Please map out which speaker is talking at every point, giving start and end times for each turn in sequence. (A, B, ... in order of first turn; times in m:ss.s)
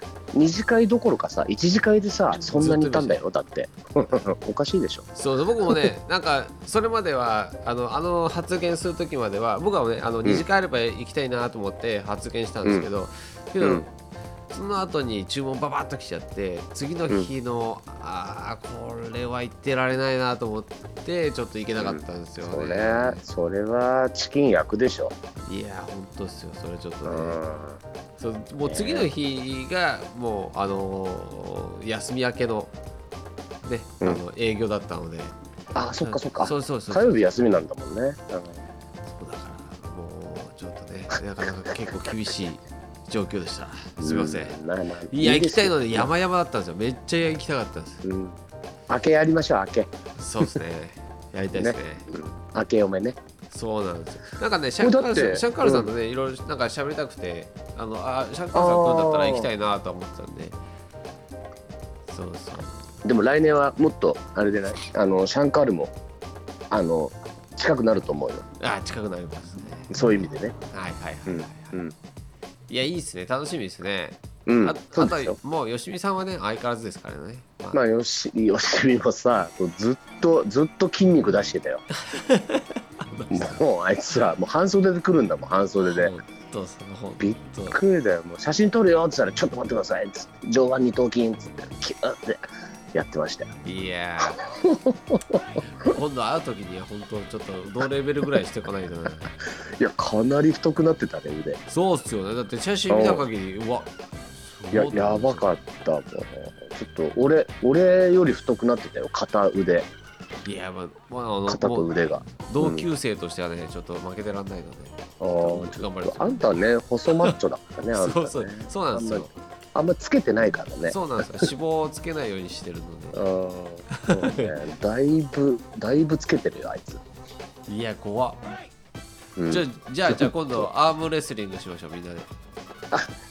0:00.3-0:05.1 A
0:02.3-0:03.2 B
0:05.2-0:13.9 B
0:14.5-0:23.2 B
0:21.8-0:25.1 A
0:25.5-0:27.4 B
0:27.0-0:27.8 A
0:28.2-0:32.7 B
0:28.7-0:29.1 A
0:33.6-0:35.4 B
0:35.7-0:38.6 A
0:36.0-0:37.4 B
0:39.1-0:44.6 B
0:44.0-0:46.1 A
0:45.1-0:48.0 B
0:48.0-0:49.9 A
0:50.2-0:52.1 B
0:51.6-0:53.2 A
0:53.5-1:00.6 B
0:54.8-0:55.9 A
0:58.5-0:59.5 A
1:02.1-1:02.9 B
1:03.0-1:05.9 A
1:06.7-1:08.5 A
1:08.6-1:10.0 B
1:09.9-1:10.6 A
1:10.7-1:11.8 B
1:11.3-1:11.9 A
1:12.7-1:17.8 B
1:14.5-1:15.4 A
1:17.7-1:21.8 A
1:22.0-1:23.6 B
1:23.3-1:26.2 A
1:25.9-1:27.8 B
1:27.2-1:33.5 A
1:33.6-1:34.4 B
1:34.4-1:36.0 A
1:35.6-1:39.3 B
1:39.6-1:41.6 A
1:41.7-1:43.9 B
1:42.9-1:43.3 A
1:44.5-1:45.5 B
1:44.7-1:49.9 A
1:50.4-1:56.5 B
1:51.5-1:52.9 A
1:55.2-2:01.5 A
1:57.1-1:57.4 B
1:57.9-1:59.3 B
2:00.9-2:03.2 B
2:03.1-2:07.0 A
2:03.9-2:04.6 B
2:07.7-2:08.4 B
2:09.4-2:10.7 A
2:09.5-2:12.3 B